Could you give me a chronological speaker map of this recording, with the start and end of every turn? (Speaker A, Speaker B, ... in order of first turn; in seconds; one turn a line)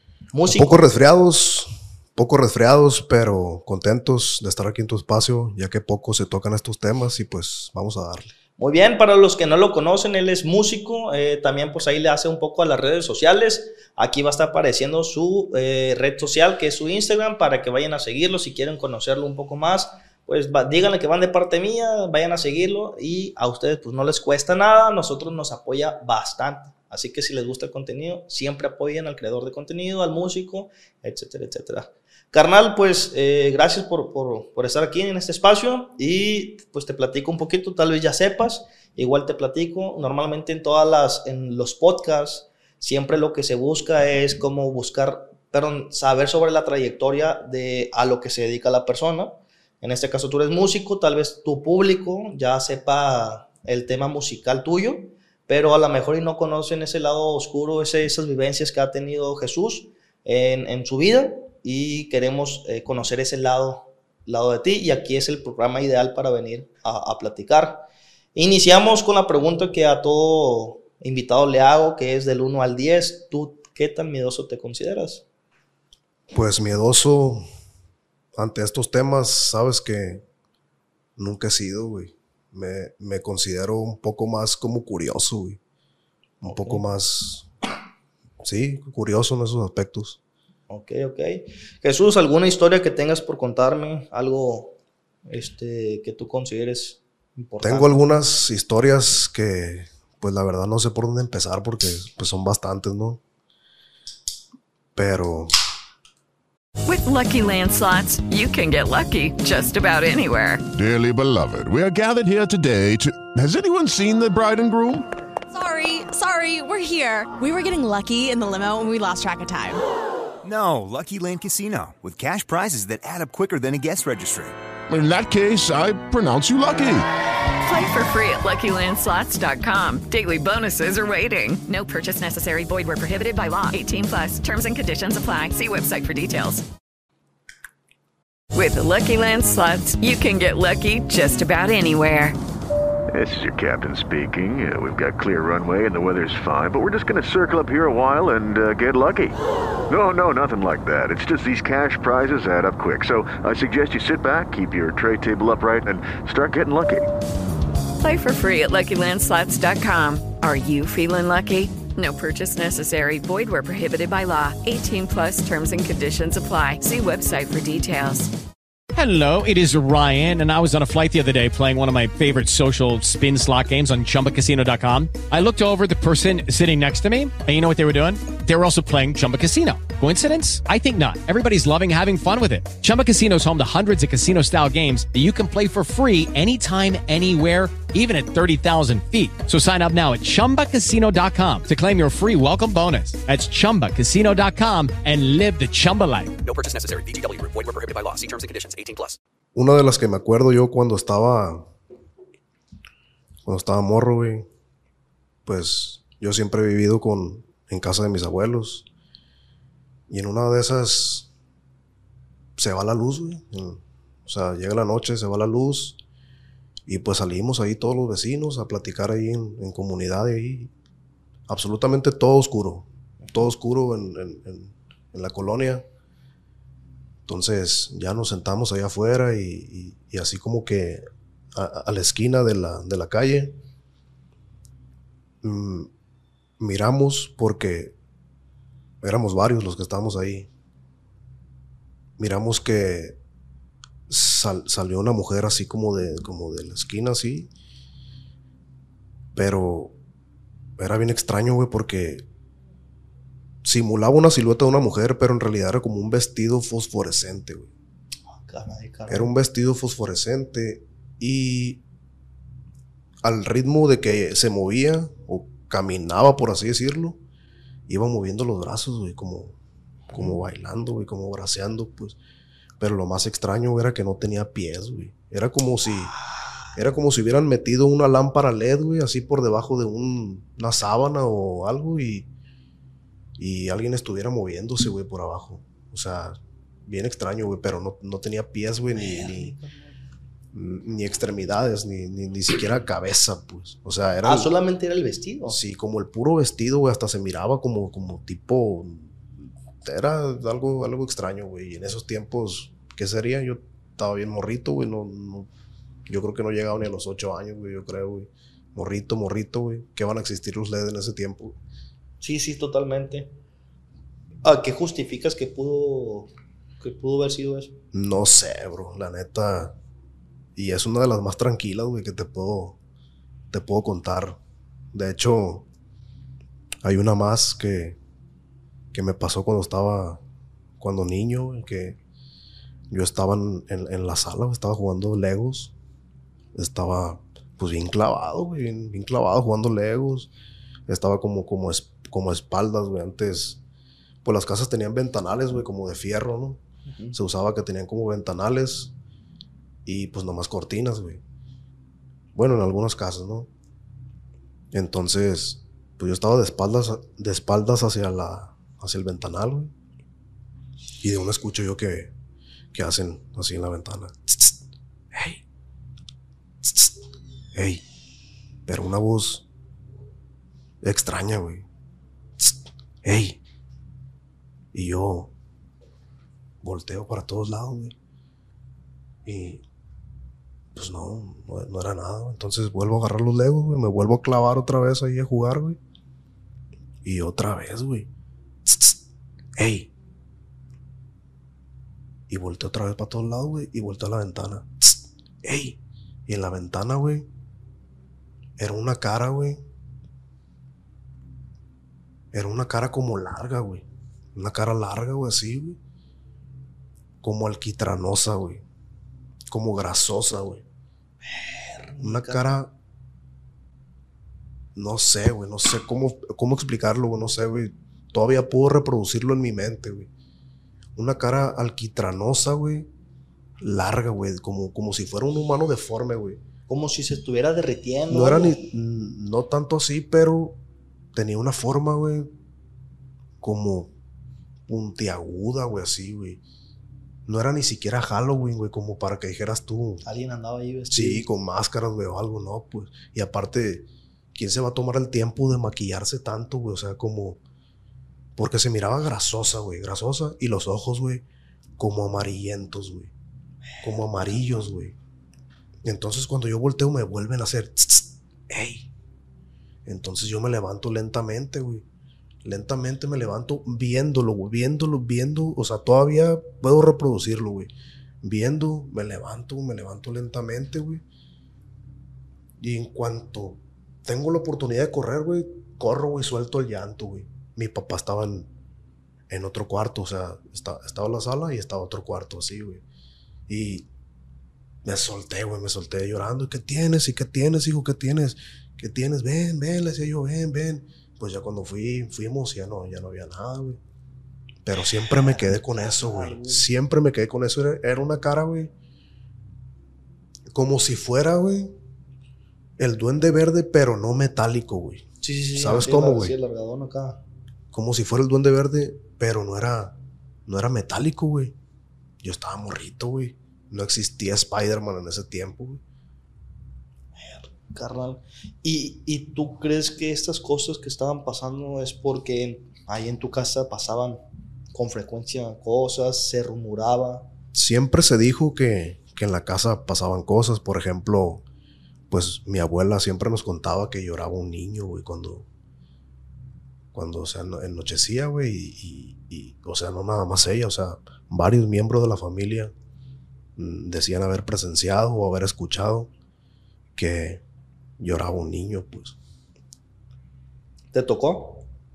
Speaker A: 0.3-0.9
Speaker B: 0.5-8.3
Speaker A: 8.6-75.2
Speaker B: 76.3-77.4
Speaker B: 78.3-80.2
Speaker B: 81.2-85.6
Speaker A: 86.4-86.8
Speaker B: 86.4-87.5
Speaker B: 88.4-90.2
Speaker A: 90.7-98.0
Speaker B: 97.6-103.2
Speaker B: 104.9-105.5
Speaker C: 106.8-110.6
Speaker D: 110.7-115.0
Speaker E: 115.5-119.8
Speaker F: 120.4-124.6
Speaker D: 124.9-127.0
Speaker C: 127.6-136.6
Speaker C: 138.5-142.4
Speaker G: 143.1-157.1
Speaker C: 158.0-168.3
Speaker H: 168.9-196.3
Speaker I: 196.4-199.2
Speaker B: 199.5-201.7
Speaker B: 203.4-204.5
Speaker B: 205.4-208.9
Speaker B: 210.1-211.3
Speaker B: 212.6-216.0
Speaker B: 216.9-220.7
Speaker B: 221.5-225.8
Speaker B: 227.2-233.6
Speaker B: 235.4-235.9
Speaker B: 236.6-237.9
Speaker B: 239.0-240.5
Speaker B: 242.2-243.2
Speaker B: 244.1-247.5
Speaker B: 249.3-249.9
Speaker B: 250.8-252.2
Speaker B: 253.6-257.7
Speaker A: 258.3-259.3
Speaker B: 259.1-261.8
Speaker B: 263.2-267.2
Speaker B: 267.9-269.6
Speaker B: 270.1-272.2
Speaker B: 272.8-276.1
Speaker B: 276.7-282.3
Speaker B: 283.4-289.5
Speaker A: 288.9-289.8
Speaker B: 290.5-294.5
Speaker A: 294.2-295.6
Speaker B: 295.4-305.5
Speaker B: 306.1-311.6
Speaker A: 312.2-313.3
Speaker A: 314.4-317.7
Speaker B: 317.9-319.8
Speaker B: 320.6-322.8
Speaker B: 323.5-324.4
Speaker B: 324.9-325.6
Speaker B: 326.8-328.0
Speaker B: 328.9-330.2
Speaker B: 330.8-332.0
Speaker B: 332.9-335.7
Speaker B: 336.5-340.3
Speaker B: 340.9-343.6
Speaker B: 344.2-346.6
Speaker A: 346.9-347.1
Speaker B: 347.1-348.9
Speaker B: 349.8-351.2
Speaker B: 352.3-353.5
Speaker B: 354.7-359.7
Speaker B: 361.0-362.1
Speaker B: 362.7-364.6
Speaker B: 365.1-365.4
Speaker B: 366.6-367.0
Speaker B: 367.5-367.8
Speaker B: 368.6-369.4
Speaker B: 370.8-371.6
Speaker B: 372.4-373.4
Speaker B: 374.7-375.3
Speaker B: 376.6-377.9
Speaker B: 379.2-379.6
Speaker B: 380.7-385.8
Speaker B: 387.0-388.1
Speaker B: 388.6-389.0
Speaker B: 389.6-389.9
Speaker B: 392.3-397.3
Speaker B: 398.6-399.6
Speaker B: 402.3-405.8
Speaker B: 407.2-408.6
Speaker B: 409.5-410.6
Speaker A: 411.2-412.4
Speaker B: 412.0-412.7
Speaker B: 414.7-420.1
Speaker B: 420.9-422.9
Speaker B: 423.6-426.4
Speaker A: 426.7-428.6
Speaker B: 428.1-430.6
Speaker B: 431.1-432.3
Speaker B: 433.4-433.9
Speaker B: 434.7-436.4
Speaker B: 437.2-440.0
Speaker A: 440.0-441.2
Speaker B: 440.9-447.4
Speaker B: 448.4-451.2
Speaker B: 451.8-453.1
Speaker B: 453.8-454.9
Speaker B: 455.8-458.9
Speaker B: 459.8-461.8
Speaker B: 462.4-471.0
Speaker B: 472.6-478.5
Speaker B: 479.3-482.8
Speaker B: 483.5-483.9
Speaker B: 484.8-493.8
Speaker B: 494.6-498.7
Speaker A: 494.9-496.7
Speaker B: 500.5-501.7
Speaker B: 502.8-506.3
Speaker A: 505.2-507.2
Speaker B: 507.7-511.5
Speaker B: 512.2-515.8
Speaker A: 517.1-524.2
Speaker A: 524.7-527.3
Speaker B: 527.5-531.4
Speaker B: 532.1-535.5
Speaker B: 536.9-542.7
Speaker B: 543.5-546.1
Speaker B: 547.0-547.4
Speaker B: 548.0-549.2
Speaker A: 550.9-551.6